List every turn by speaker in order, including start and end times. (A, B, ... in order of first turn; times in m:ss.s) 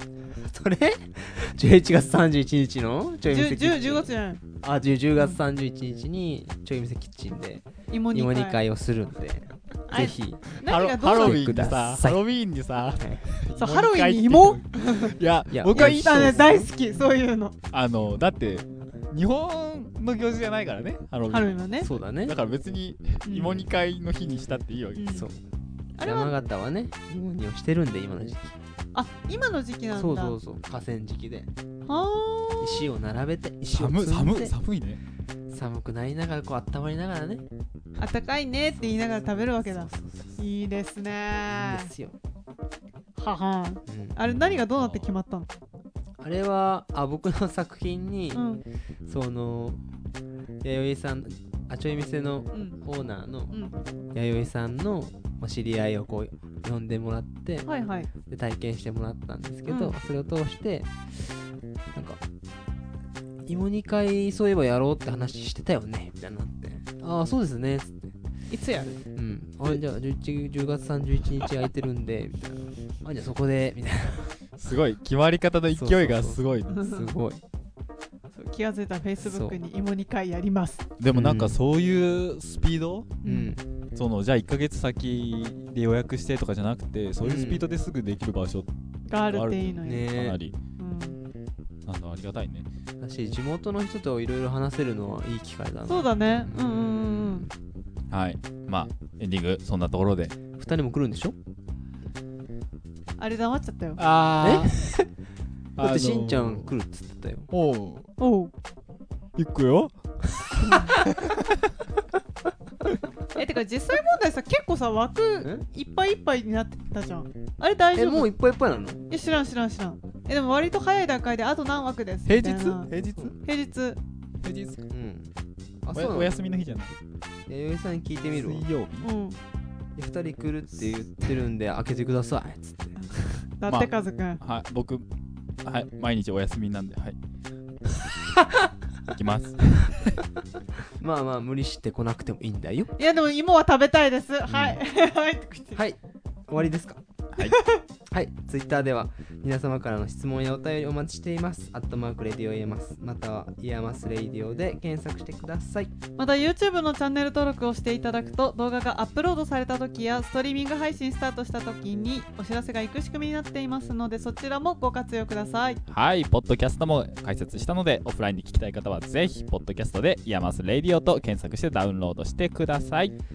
0:00.4-0:04.1 A
0:03.3-0:04.4 B
0:04.6-0:10.5 A
0:07.9-0:08.6 B
0:09.9-0:11.7 B
0:10.6-0:16.4 C
0:11.1-0:12.2 A
0:13.0-0:13.3 A
0:13.6-0:15.1 B
0:15.5-0:16.7 A
0:15.7-0:17.6 B
0:17.7-0:21.6 C
0:21.3-0:21.9 B
0:21.8-0:22.4 A
0:22.2-0:25.3 C
0:23.3-0:23.6 B
0:25.0-0:25.3 B
0:25.1-0:25.4 A
0:26.0-0:26.3 B
0:26.0-0:28.6 A
0:28.9-0:30.4 B
0:29.9-0:31.5 A
0:31.9-0:32.8 B
0:32.6-0:34.5 A
0:33.7-0:35.0 C
0:35.5-0:37.5 A
0:38.0-0:41.9 B
0:38.8-0:40.4 A
0:41.5-0:42.2 A
0:43.2-0:45.5 B
0:43.9-0:44.2 A
0:44.8-0:45.1 A
0:46.2-0:48.4 A
0:48.4-0:48.6 B
0:49.0-0:49.9 A
0:50.6-0:53.6 A
0:52.5-0:52.8 B
0:53.5-0:53.8 B
0:54.1-1:00.9 A
0:57.7-0:58.1 B
0:59.7-1:00.0 B
1:01.9-1:02.2 A
1:03.5-1:08.2 A
1:08.5-1:09.0 B
1:09.1-1:14.4 A
1:14.6-1:16.8 C
1:15.7-1:17.4 A
1:16.7-1:17.1 B
1:18.3-1:20.8 B
1:19.2-1:19.6 A
1:21.0-1:23.2 C
1:21.1-1:21.6 A
1:23.2-1:23.6 B
1:23.2-1:23.6 A
1:23.9-1:28.7 C
1:27.2-1:27.6 A
1:29.1-1:30.1 B
1:29.3-1:30.6 C
1:29.8-1:30.4 A
1:30.8-1:31.2 B
1:31.8-1:32.7 C
1:33.0-1:37.5 A
1:35.9-1:37.5 B
1:38.1-1:40.4 C
1:40.5-1:41.4 A
1:43.2-1:44.0 B
1:44.0-1:44.9 C
1:44.4-1:45.1 A
1:45.8-1:46.7 C
1:45.8-1:47.5 A
1:47.5-1:48.1 C
1:48.2-1:48.5 B
1:49.4-1:50.0 C
1:50.6-1:51.0 B
1:50.6-1:51.7 C
1:53.4-1:58.3 B
1:58.0-1:59.1 A
1:59.1-2:02.9 B
2:02.3-2:03.4 C
2:03.4-2:04.0 B
2:04.4-2:04.8 C
2:04.9-2:05.3 A
2:05.8-2:06.4 A
2:05.9-2:07.0 C
2:07.5-2:08.6 A
2:08.3-2:09.1 C
2:09.0-2:09.4 B
2:10.0-2:13.2 A
2:13.6-2:14.4 B
2:13.7-2:15.1 C
2:15.6-2:17.2 C
2:19.1-2:20.1 C
2:21.0-2:22.9 A
2:23.0-2:25.8 B
2:24.5-2:24.8 C
2:25.8-2:27.0 A
2:27.5-2:27.8 B
2:28.1-2:35.9 A
2:36.2-2:45.8 B
2:45.9-2:53.2 C